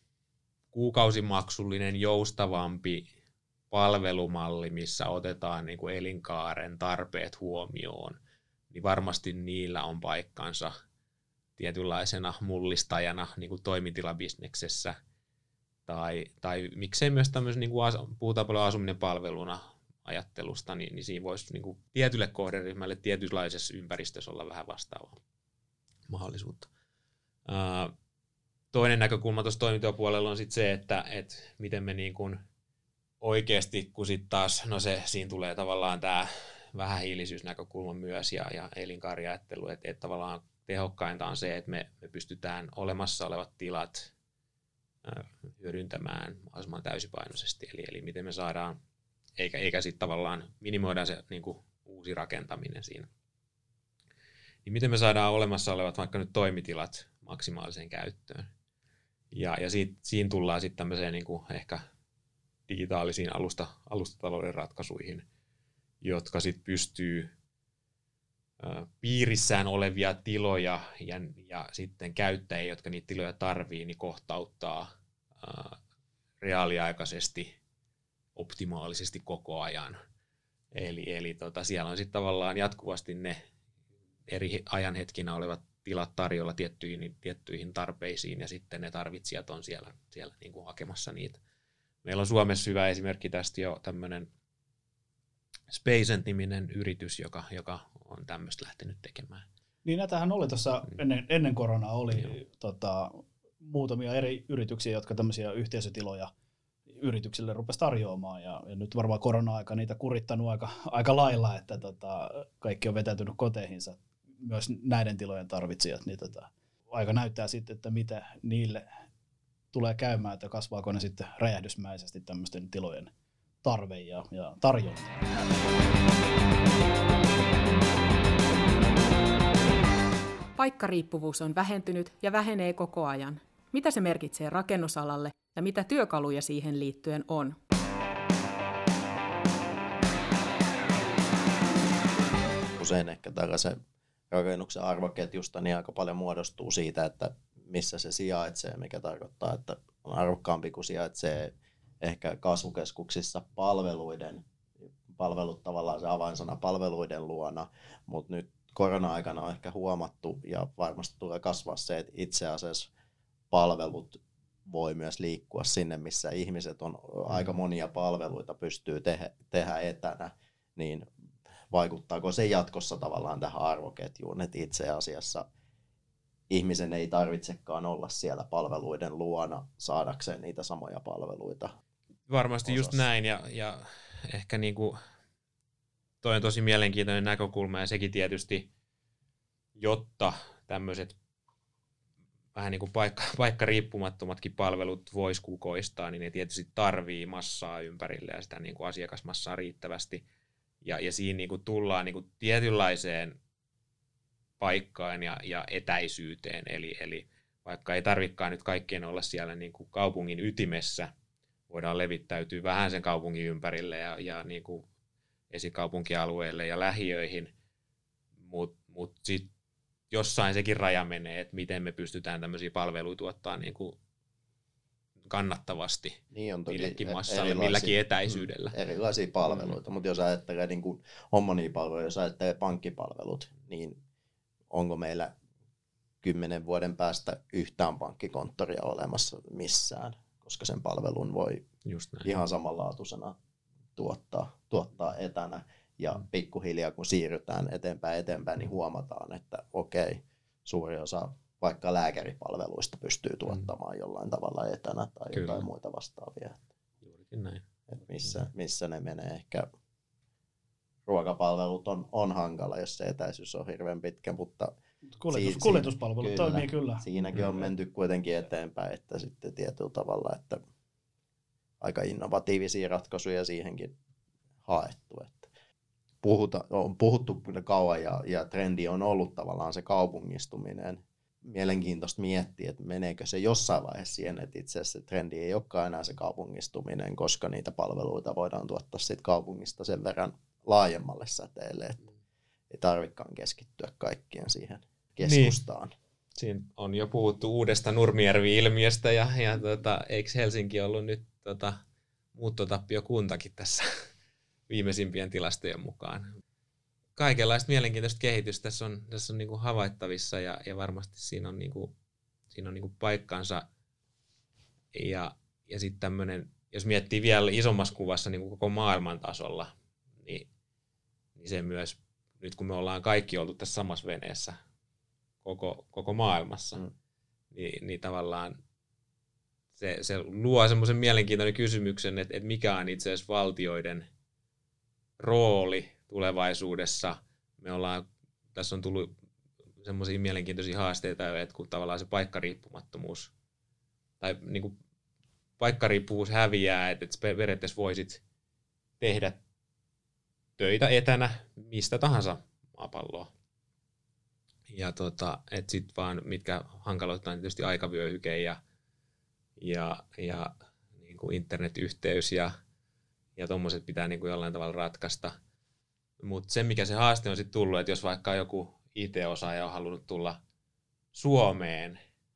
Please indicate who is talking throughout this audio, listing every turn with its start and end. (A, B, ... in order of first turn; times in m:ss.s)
0:00.7-0:03.1 A
0:03.7-0:08.2 A
0:08.7-0:10.7 A
0:11.6-0:15.0 A
0:15.9-0:25.2 A
0:26.1-0:26.7 A
0:27.5-0:27.9 A
0:28.7-0:32.4 A
0:33.2-0:44.1 A
0:45.0-0:48.8 A
0:49.4-0:53.1 A
0:54.6-0:58.5 A
0:59.3-1:01.8 A
1:02.7-1:05.2 A
1:06.0-1:07.3 A
1:08.6-1:14.9 A
1:15.4-1:15.8 A
1:16.4-1:17.5 A
1:18.4-1:20.0 A
1:20.7-1:23.4 A
1:24.3-1:31.4 A
1:32.0-1:34.3 A
1:35.7-1:39.4 A
1:39.8-1:46.3 B
1:47.0-1:58.8 B
1:59.7-2:03.1 B
2:03.6-2:05.3 B
2:10.6-2:17.6 C
2:22.8-2:23.8 D
2:24.3-2:34.4 D
2:35.1-2:42.9 D
2:43.5-2:51.1 D
2:51.7-2:55.4 D
2:56.5-3:01.7 D
3:02.3-3:05.0 A
3:02.6-3:03.0 D
3:06.2-3:08.7 A
3:09.8-3:11.2 A
3:12.5-3:20.2 A
3:20.8-3:23.4 A
3:24.6-3:31.1 A
3:31.7-3:34.8 A
3:35.5-3:37.5 A
3:38.4-3:39.5 A
3:40.1-3:44.0 A
3:45.3-3:48.7 A
3:46.3-3:54.0 D
3:54.7-3:55.3 D
3:56.2-4:01.6 D
4:01.8-4:02.3 A
4:02.2-4:03.4 D
4:04.0-4:16.6 D
4:15.3-4:15.6 A
4:17.0-4:17.6 A
4:17.9-4:19.7 D
4:21.1-4:24.7 D
4:25.1-4:27.0 B
4:25.3-4:30.6 D
4:31.8-4:34.0 D
4:34.6-4:35.5 D
4:36.2-4:52.0 D
4:52.7-4:55.9 D
4:55.2-4:55.6 A
4:56.4-5:01.8 A
5:02.3-5:03.9 A
5:04.7-5:06.3 A
5:07.2-5:11.9 A
5:12.5-5:13.6 A
5:14.9-5:19.7 A
5:21.4-5:24.6 A
5:25.4-5:26.8 A
5:27.5-5:28.6 A
5:29.8-5:34.1 A
5:35.2-5:39.1 A
5:39.8-5:43.3 A
5:44.2-5:44.8 A
5:45.6-5:48.2 A
5:49.0-5:49.4 A
5:50.6-5:53.3 A
5:54.7-5:58.6 A
5:59.6-6:02.5 A
6:03.4-6:05.3 A
6:06.2-6:10.4 A
6:11.1-6:12.0 A